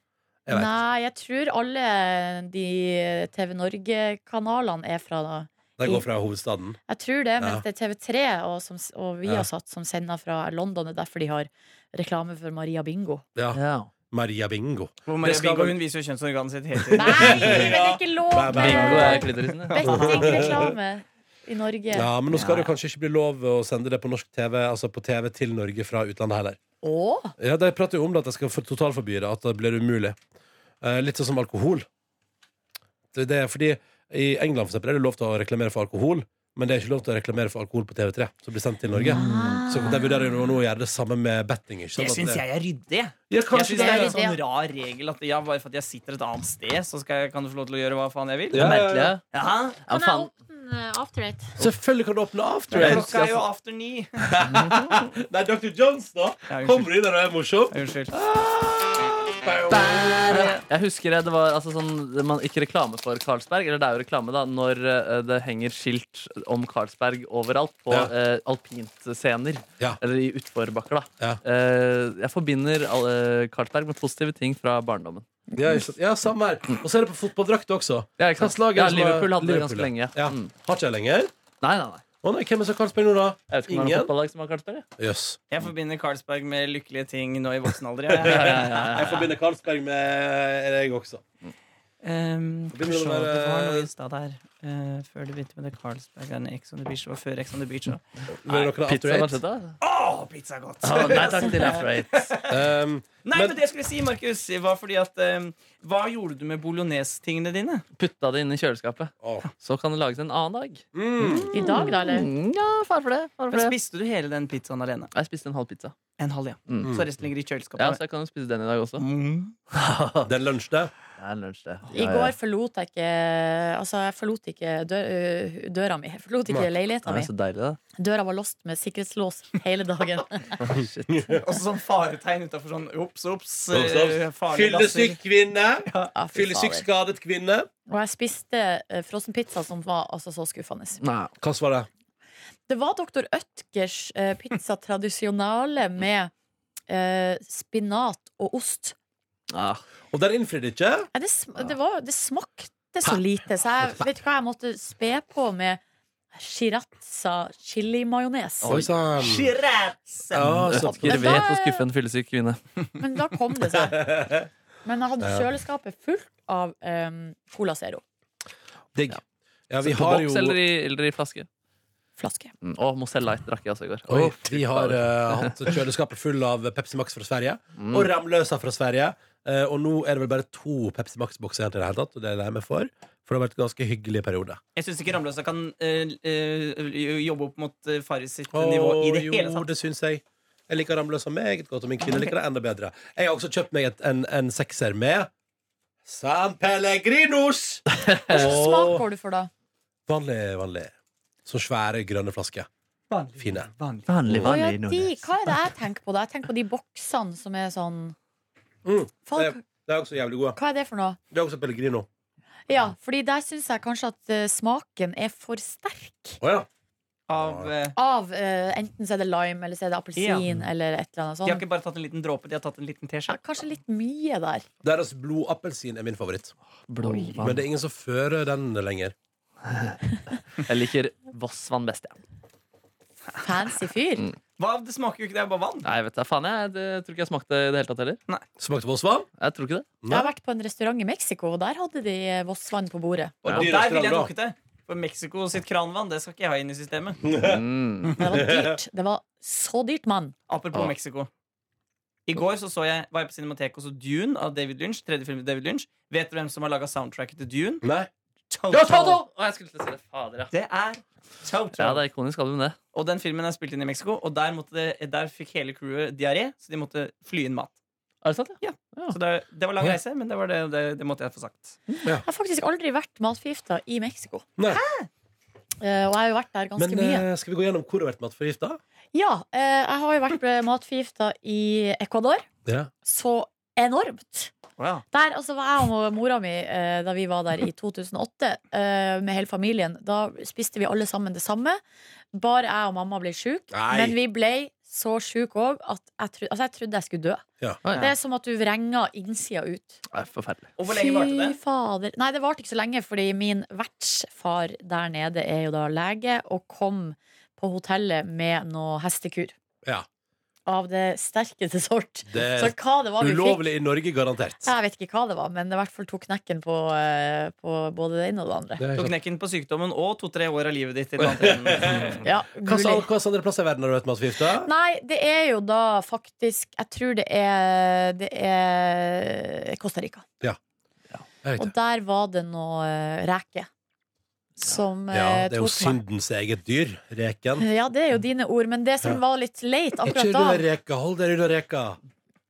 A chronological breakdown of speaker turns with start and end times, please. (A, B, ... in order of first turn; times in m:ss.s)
0:00.4-0:00.8 A
0:00.5-0:06.0 B
0:05.8-0:06.8 A
0:06.9-0:13.2 B
0:13.4-0:15.8 A
0:13.5-0:13.9 C
0:15.1-0:17.7 D
0:16.8-0:19.3 A
0:16.9-0:22.1 B
0:18.5-0:19.8 C
0:19.6-0:20.5 D
0:19.8-0:20.7 A
0:21.9-0:26.6 A
0:22.3-0:22.7 C
0:26.8-0:27.3 B
0:27.4-0:30.2 A
0:30.8-0:31.8 A
0:33.1-0:42.4 A
0:38.9-0:39.5 C
0:39.1-0:40.3 B
0:42.0-0:49.8 D
0:43.3-0:44.2 A
0:43.6-0:44.4 B
0:48.5-0:49.1 A
0:48.5-0:49.2 C
0:49.8-0:50.3 C
0:49.9-0:51.6 B
0:51.6-0:53.1 A
0:52.7-0:54.4 D
0:52.7-0:53.4 C
0:54.2-1:00.5 A
0:54.4-0:54.9 C
0:56.5-0:56.9 D
0:57.7-0:58.1 D
0:59.7-1:15.2 C
1:00.3-1:00.6 D
1:15.5-1:21.3 A
1:18.2-1:20.5 C
1:21.6-1:22.0 C
1:22.2-1:24.1 A
1:23.5-1:24.8 C
1:25.0-1:25.4 A
1:25.5-1:29.2 D
1:28.1-1:31.2 A
1:28.2-1:29.3 C
1:32.0-1:38.7 D
1:32.7-1:33.9 A
1:38.3-1:39.4 A
1:38.8-1:39.8 C
1:39.8-1:42.6 D
1:40.8-1:42.3 C
1:42.5-1:43.6 A
1:43.2-1:47.8 D
1:48.0-1:53.8 C
1:49.2-1:49.4 A
1:50.9-1:51.7 A
1:51.5-1:52.3 B
1:53.5-1:55.1 D
1:55.1-1:55.9 C
1:56.2-1:58.0 D
1:57.8-1:59.0 C
1:59.0-1:59.5 D
1:59.7-2:00.3 C
2:00.2-2:00.9 A
2:01.2-2:02.3 C
2:01.9-2:07.3 B
2:07.0-2:07.8 C
2:08.0-2:10.6 B
2:10.6-2:11.3 C
2:10.8-2:11.4 A
2:11.3-2:15.2 D
2:13.7-2:17.7 A
2:15.8-2:16.1 D
2:16.1-2:16.8 B
2:17.9-2:21.0 B
2:21.0-2:21.3 C
2:21.4-2:21.9 A
2:22.7-2:26.3 B
2:26.9-2:29.0 B
2:29.5-2:29.8 C
2:30.1-2:31.1 A
2:31.1-2:35.8 B
2:36.3-2:38.8 B
2:38.6-2:38.9 C
2:38.7-2:39.5 A
2:39.2-2:40.6 D
2:40.3-2:41.4 A
2:40.5-2:42.6 C
2:40.8-2:41.8 B
2:43.0-2:44.1 B
2:43.7-2:44.5 A
2:44.8-2:48.0 B
2:45.2-2:45.4 A
2:48.9-2:50.6 A
2:49.8-2:51.5 C
2:52.2-2:52.5 B
2:52.6-2:55.6 C
2:54.1-3:04.6 A
2:57.8-2:58.1 C
3:04.8-3:09.6 D
3:08.5-3:15.3 A
3:16.0-3:19.0 A
3:17.9-3:18.4 C
3:18.3-3:19.5 B
3:20.1-3:20.9 A
3:21.4-3:22.7 A
3:23.1-3:24.1 D
3:23.4-3:23.7 A
3:24.1-3:25.6 C
3:24.3-3:24.6 A
3:24.4-3:28.1 B
3:28.8-3:30.6 A
3:29.3-3:29.6 B
3:30.6-3:31.2 B
3:31.3-3:32.1 A
3:32.7-3:36.4 B
3:36.4-3:36.7 A
3:37.3-3:38.0 D
3:37.4-3:37.7 A
3:38.0-3:41.6 B
3:40.2-3:40.4 D
3:41.4-3:43.4 D
3:43.3-3:44.6 B
3:44.8-3:46.5 A
3:46.9-3:47.6 C
3:47.0-3:47.3 D
3:47.4-3:49.1 A
3:49.7-3:50.0 C
3:50.6-3:52.2 C
3:53.4-3:54.3 B
3:54.6-3:55.9 D
3:55.8-3:58.2 C
3:58.6-3:59.3 A
3:59.4-3:59.9 C
4:00.0-4:00.3 A
4:00.1-4:03.4 B
4:03.4-4:04.3 A
4:03.4-4:03.7 C
4:03.5-4:07.2 D
4:07.2-4:07.6 A
4:07.4-4:08.2 C
4:08.2-4:10.3 B
4:08.2-4:08.8 A
4:10.5-4:11.3 D
4:12.3-4:17.8 D
4:17.8-4:18.1 A
4:18.5-4:19.2 D
4:18.7-4:20.5 C
4:20.5-4:22.0 D
4:21.8-4:22.8 C
4:22.9-4:27.7 D
4:28.2-4:29.2 C
4:28.6-4:31.8 D
4:32.2-4:34.4 B
4:34.6-4:34.8 A
4:34.7-4:35.1 D
4:35.8-4:37.2 B
4:36.8-4:38.8 A
4:39.1-4:42.4 B
4:42.6-4:42.9 A
4:43.0-4:44.5 B
4:44.8-4:45.0 D
4:45.1-4:51.8 B
4:52.3-4:57.4 B
4:53.7-4:54.2 A
4:57.8-4:58.1 C
4:58.0-5:00.0 B
5:00.1-5:00.7 C
5:00.8-5:01.6 D
5:00.9-5:09.5 B
5:10.6-5:13.7 B
5:12.3-5:14.7 A
5:14.6-5:18.8 B
5:18.8-5:19.1 A
5:19.0-5:22.2 D
5:21.2-5:24.7 A
5:22.2-5:23.1 B
5:24.6-5:30.2 B
5:31.4-5:31.7 A
5:31.6-5:33.7 B
5:34.6-5:36.0 B
5:35.1-5:37.6 A
5:37.6-5:40.6 B
5:40.0-5:42.0 A